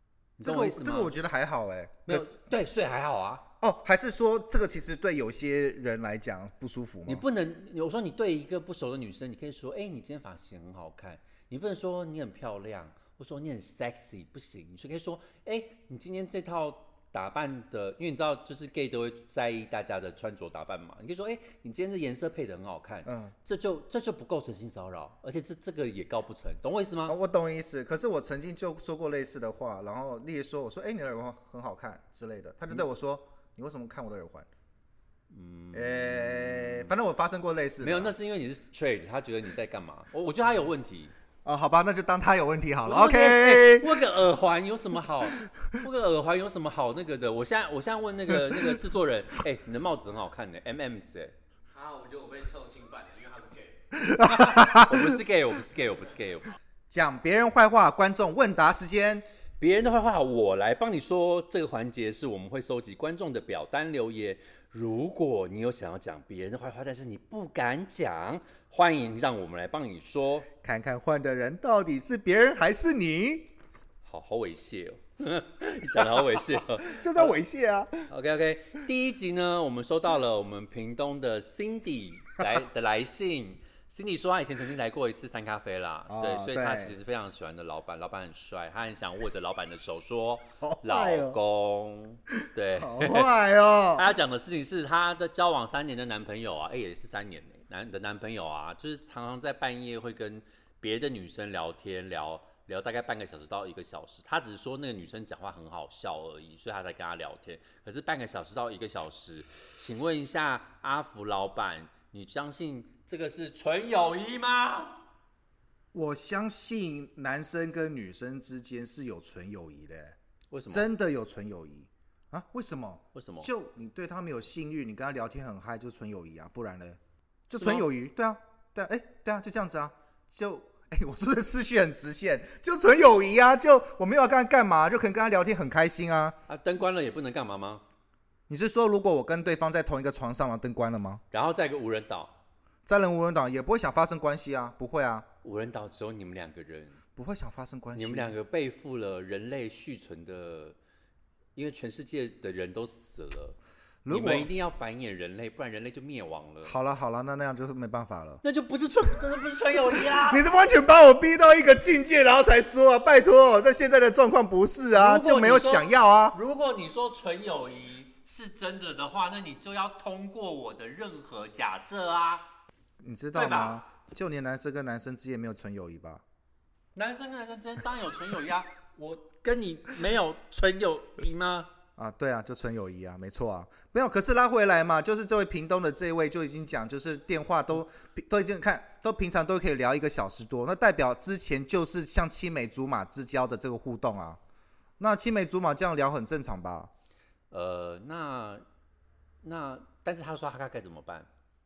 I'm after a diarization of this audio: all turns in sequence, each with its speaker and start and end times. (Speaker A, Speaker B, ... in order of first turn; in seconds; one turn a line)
Speaker A: 0.4-1.1
Speaker B: 0.4-2.3
Speaker A: 2.1-3.5
Speaker B: 3.6-7.2
Speaker A: 7.0-27.1
Speaker B: 23.1-23.3
Speaker B: 27.1-34.5
Speaker A: 35.3-36.9
Speaker B: 35.7-38.1
Speaker A: 37.8-41.1
Speaker B: 41.4-44.0
Speaker A: 42.8-51.3
Speaker C: 51.7-53.8
Speaker B: 54.0-55.1
Speaker A: 54.2-56.5
Speaker B: 56.9-59.2
Speaker A: 59.6-70.5
Speaker B: 70.6-73.5
Speaker A: 74.0-77.3
Speaker B: 76.0-78.1
Speaker A: 78.1-93.3
Speaker B: 86.1-87.0
Speaker B: 90.6-91.4
Speaker B: 92.8-94.1
Speaker A: 93.9-115.0
Speaker B: 115.9-120.2
Speaker A: 120.5-120.9
Speaker B: 120.7-136.4
Speaker A: 123.1-123.5
Speaker A: 127.5-127.9
Speaker A: 136.5-137.8
Speaker B: 138.5-141.2
Speaker A: 141.3-142.3
Speaker B: 142.8-145.2
Speaker A: 145.4-147.0
Speaker B: 147.2-148.3
Speaker A: 147.9-150.8
Speaker A: 151.6-153.6
Speaker B: 154.0-154.5
Speaker A: 154.1-156.8
Speaker B: 156.6-158.4
Speaker A: 158.4-160.5
Speaker B: 160.1-166.4
Speaker A: 164.9-172.5
Speaker B: 173.0-176.2
Speaker A: 173.3-173.8
Speaker A: 176.9-181.7
Speaker B: 182.0-194.4
Speaker B: 195.0-196.9
Speaker A: 197.5-198.6
Speaker A: 199.4-201.3